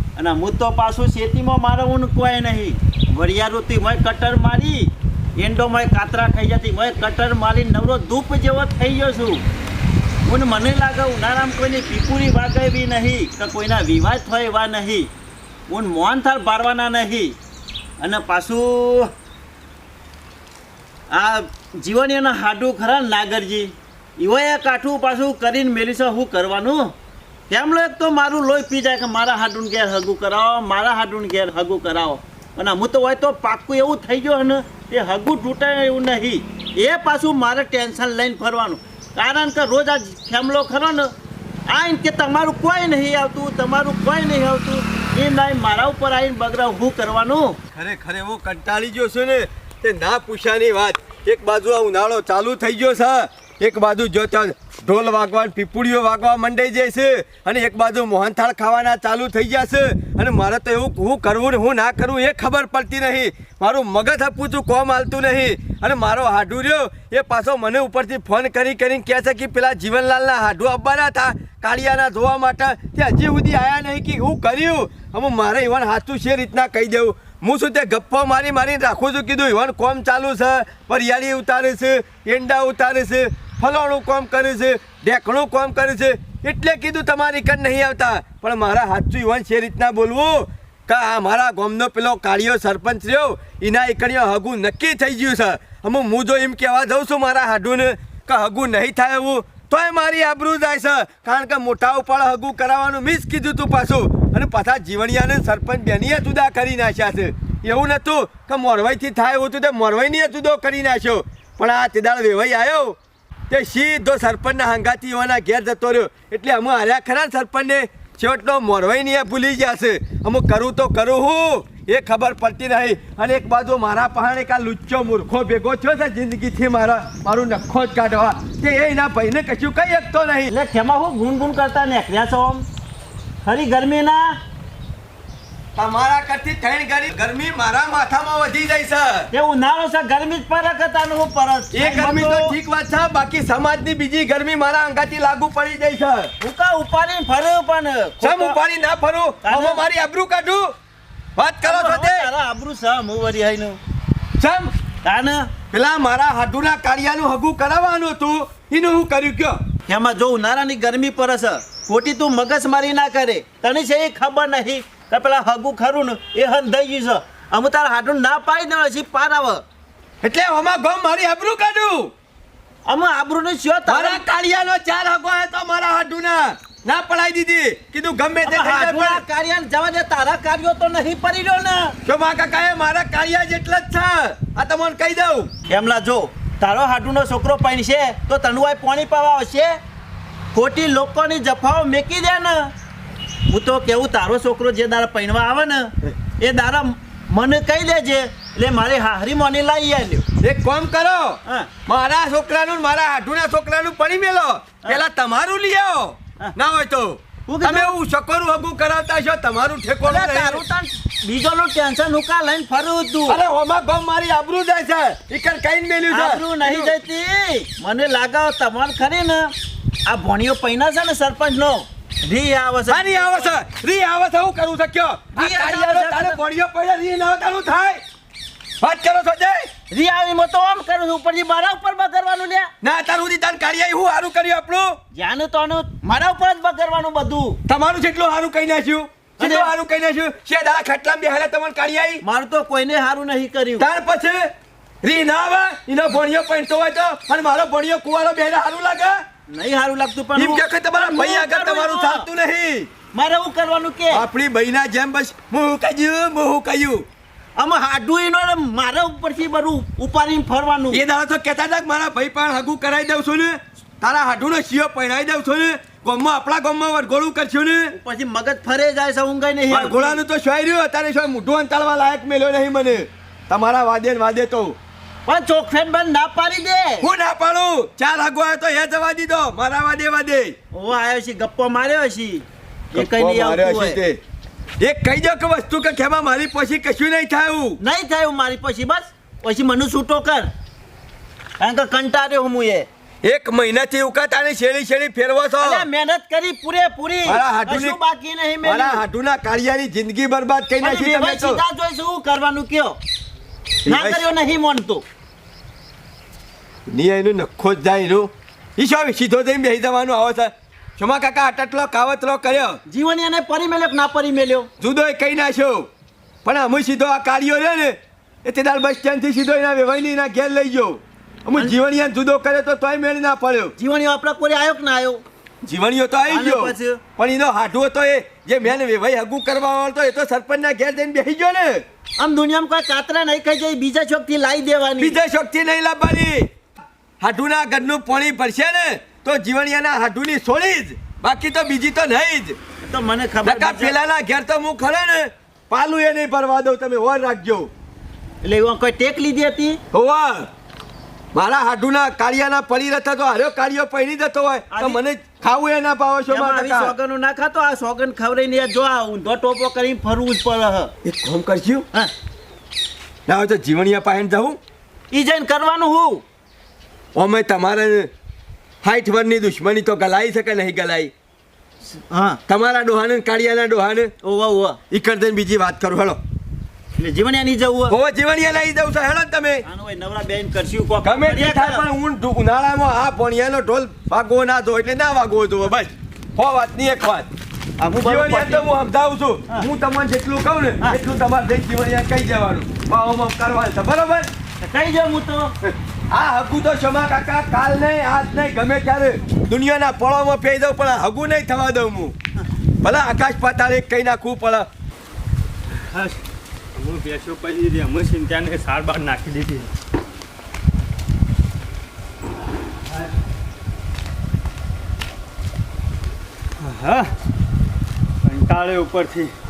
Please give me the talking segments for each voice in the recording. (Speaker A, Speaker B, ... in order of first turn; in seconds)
Speaker A: 0.2-9.4, 10.3-15.1, 15.7-17.4, 18.0-19.1, 21.1-26.9, 27.5-41.1, 41.7-47.6, 130.5-132.7, 133.4-134.4, 139.3-142.6, 146.4-148.6, 149.4-149.8, 151.6-153.8, 155.0-155.5, 159.9-169.6, 172.9-174.2, 178.4-181.9, 185.7-189.8, 190.5-192.7, 193.5-200.2, 207.5-207.9, 210.1-213.4, 216.1-219.5, 220.1-223.5, 225.4-226.4, 229.9-232.7, 235.1-237.6, 239.4-239.7, 242.2-243.9, 249.5-252.3, 253.1-254.2, 257.6-261.0, 267.9-270.2, 275.2-277.1, 280.7-284.0, 287.8-290.5, 291.6-292.9, 295.6-299.0, 300.8-303.0, 303.9-305.0, 312.9-314.7, 323.8-325.2, 326.3-327.0, 332.2-335.2, 342.8-343.9, 348.4-349.8, 354.7-355.0, 356.3-360.9, 365.1-366.2, 371.9-372.4, 374.2-374.8, 377.0-378.0, 379.6-381.9, 387.8-388.7, 394.6-395.5
Speaker B: 47.8-113.0, 113.5-130.5, 135.8-139.3, 141.7-146.3, 148.2-150.7, 151.4-152.3, 154.4-154.7, 155.7-159.6, 170.2-172.1, 173.9-179.2, 182.1-185.5, 200.4-210.6, 213.3-216.9, 222.9-228.0, 228.8-229.7, 232.8-234.9, 237.7-242.2, 243.8-244.5, 245.0-249.2, 250.4-252.9, 254.1-257.1, 260.9-267.9, 269.7-274.8, 277.0-280.6, 282.9-284.2, 284.8-287.8, 293.2-295.9, 297.2-298.0, 298.6-301.6, 303.9-304.3, 306.9-312.8, 314.8-315.9, 316.4-323.7, 325.6-331.8, 335.0-336.5, 337.2-342.6, 343.4-347.7, 349.9-350.5, 351.3-357.0, 361.0-361.9, 363.3-364.6, 367.1-368.1, 368.8-371.1, 372.5-374.1, 374.9-376.2, 377.9-379.6, 381.0-387.3, 388.0-394.3, 395.6-402.2, 402.8-404.7
Speaker C: 405.8-406.2, 406.8-409.7, 416.6-417.1, 418.2-419.3